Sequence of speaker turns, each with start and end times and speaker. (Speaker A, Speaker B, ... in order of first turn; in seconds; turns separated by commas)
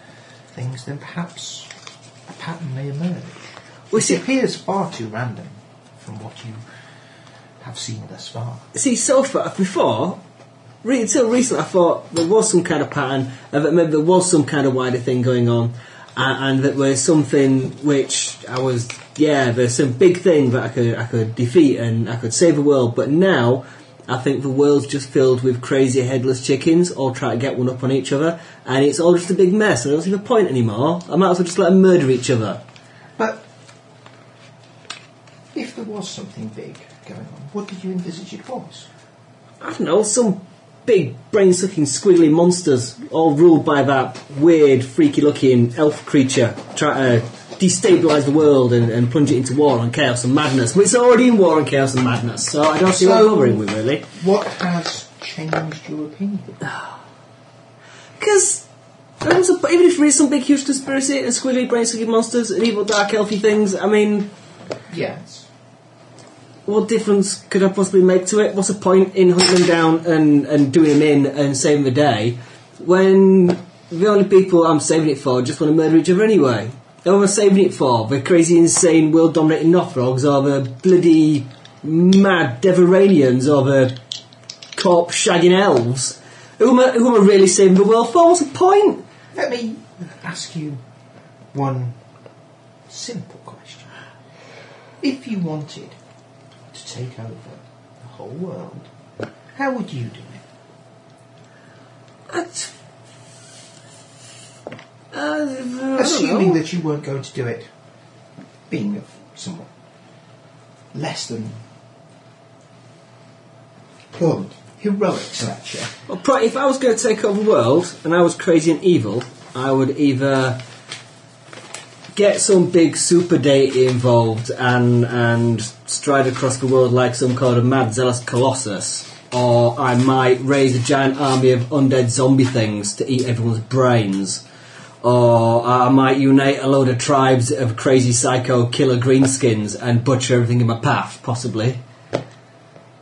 Speaker A: 0.5-1.7, Speaker A: 2.3-6.6, Speaker B: 3.9-4.2, Speaker A: 7.6-8.7, Speaker B: 8.7-10.2, Speaker B: 10.8-32.6, Speaker A: 33.2-33.4, Speaker A: 35.5-38.9, Speaker B: 39.6-54.1, Speaker A: 52.9-56.6, Speaker B: 58.2-58.6, Speaker B: 59.2-64.3, Speaker A: 64.9-65.5, Speaker B: 66.7-84.0, Speaker B: 84.8-89.0, Speaker A: 89.3-90.8, Speaker A: 91.5-92.0, Speaker A: 92.9-94.0, Speaker A: 95.0-96.0, Speaker A: 96.7-98.9, Speaker A: 99.5-100.4, Speaker B: 102.3-102.7, Speaker B: 105.1-106.6, Speaker A: 106.0-107.7, Speaker A: 108.7-109.7, Speaker A: 110.9-111.6, Speaker A: 114.2-116.0, Speaker B: 116.1-120.6, Speaker B: 122.1-134.4, Speaker B: 135.0-141.8